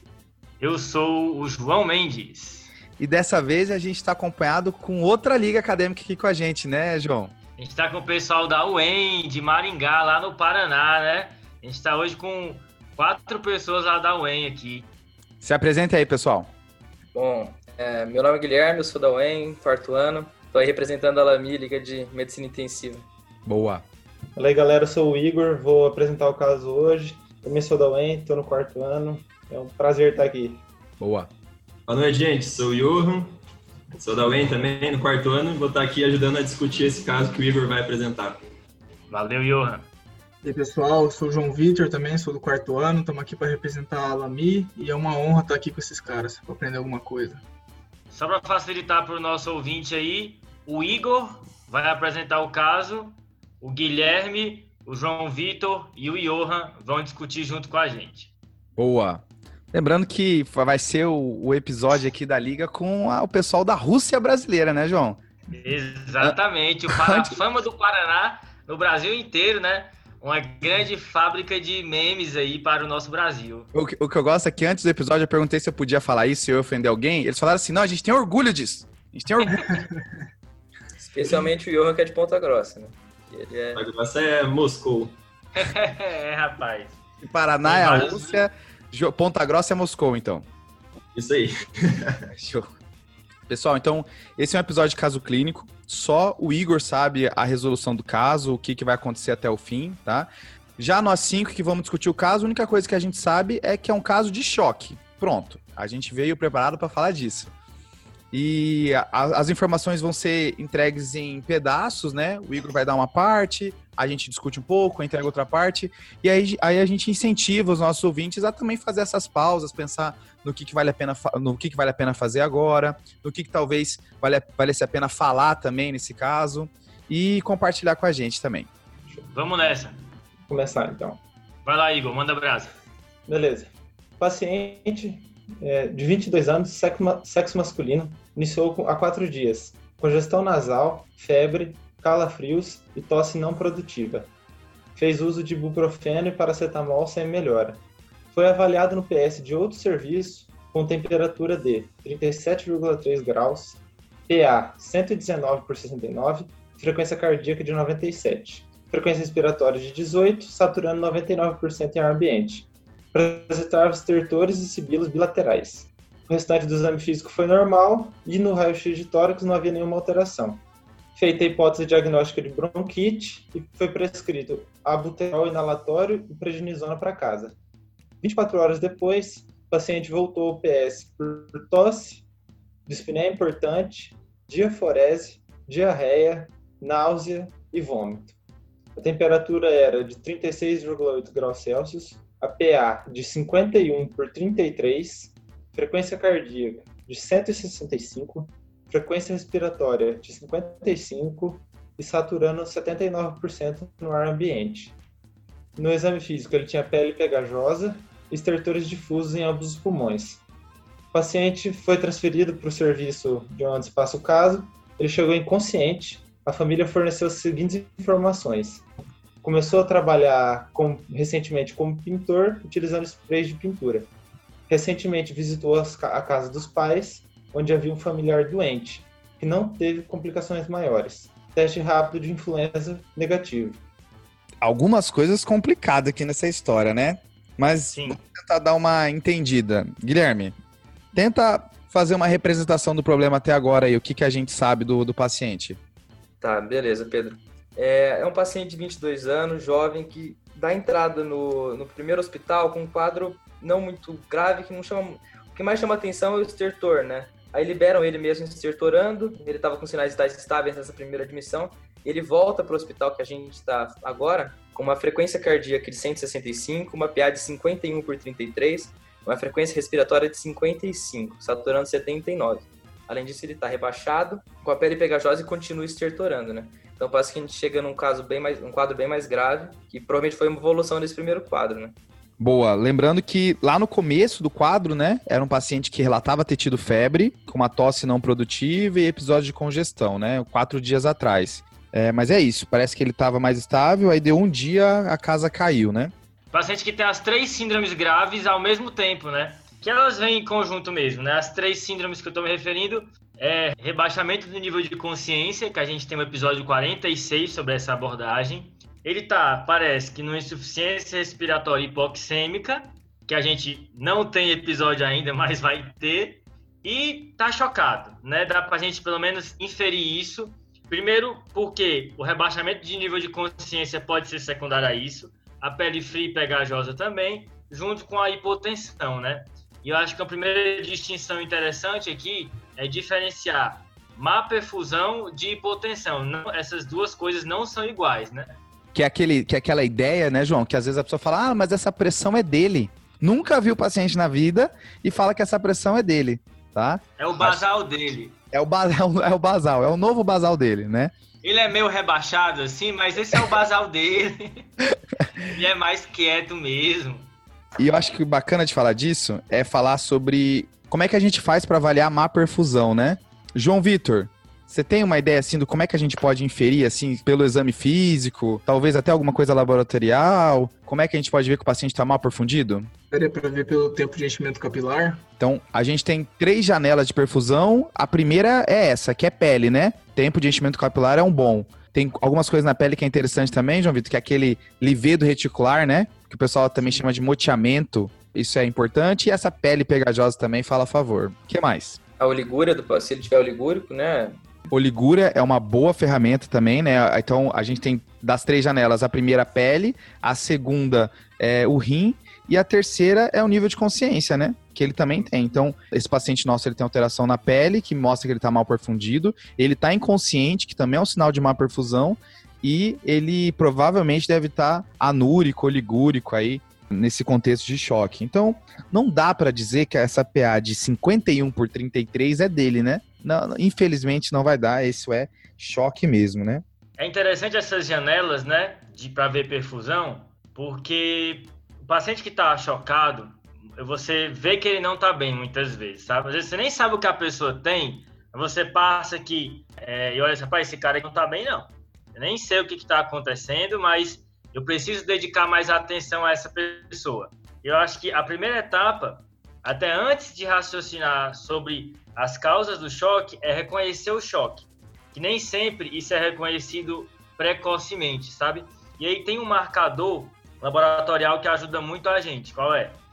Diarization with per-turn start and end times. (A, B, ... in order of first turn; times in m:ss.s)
0:00.6-0:02.7 A
0:03.0-0:07.3 B
0:07.6-0:14.9 A
0:15.4-0:16.5 B
0:17.1-0:23.1 C
0:23.4-0:23.8 B
0:24.4-0:30.6 D
0:31.0-0:31.3 B
0:31.9-0:33.3 E
0:33.9-0:38.4 E
0:39.1-0:39.9 A
0:40.4-0:47.4 F
0:48.1-0:58.3 A
0:58.8-1:05.2 B
1:05.5-1:13.7 A
1:06.9-1:07.4 B
1:13.7-1:19.8 B
1:21.0-1:23.8 C
1:23.7-1:25.2 E
1:25.5-1:27.0 A
1:27.2-1:30.4 B
1:27.6-1:28.4 A
1:31.1-1:32.2 E
1:32.3-1:32.7 B
1:33.5-1:47.5 B
1:48.3-2:08.7 B
2:09.2-2:10.0 A
2:10.5-2:11.2 D
2:11.6-2:12.7 A
2:13.3-2:24.3 D
2:25.0-2:27.8 D
2:28.3-2:50.6 D
2:51.2-2:57.6 D
2:58.2-3:02.2 D
3:02.9-3:08.3 D
3:09.0-3:24.9 D
3:25.8-3:30.4 D
3:31.1-3:38.8 D
3:39.4-3:44.1 D
3:44.7-3:53.8 D
3:54.6-4:00.5 B
3:57.9-3:58.2 A
4:01.1-4:05.8 B
4:06.4-4:41.9 C
4:42.4-4:56.1 B
4:56.5-5:38.6 A
5:38.9-5:47.6 B
5:47.2-5:48.4 A
5:48.5-5:51.1 B
5:51.4-5:54.7 A
5:55.4-5:57.3 A
5:57.8-6:12.9 B
6:13.1-6:15.2 F
6:15.4-6:32.0 B
6:32.2-6:34.4 C
6:34.7-7:06.6 B
7:07.0-7:43.0 A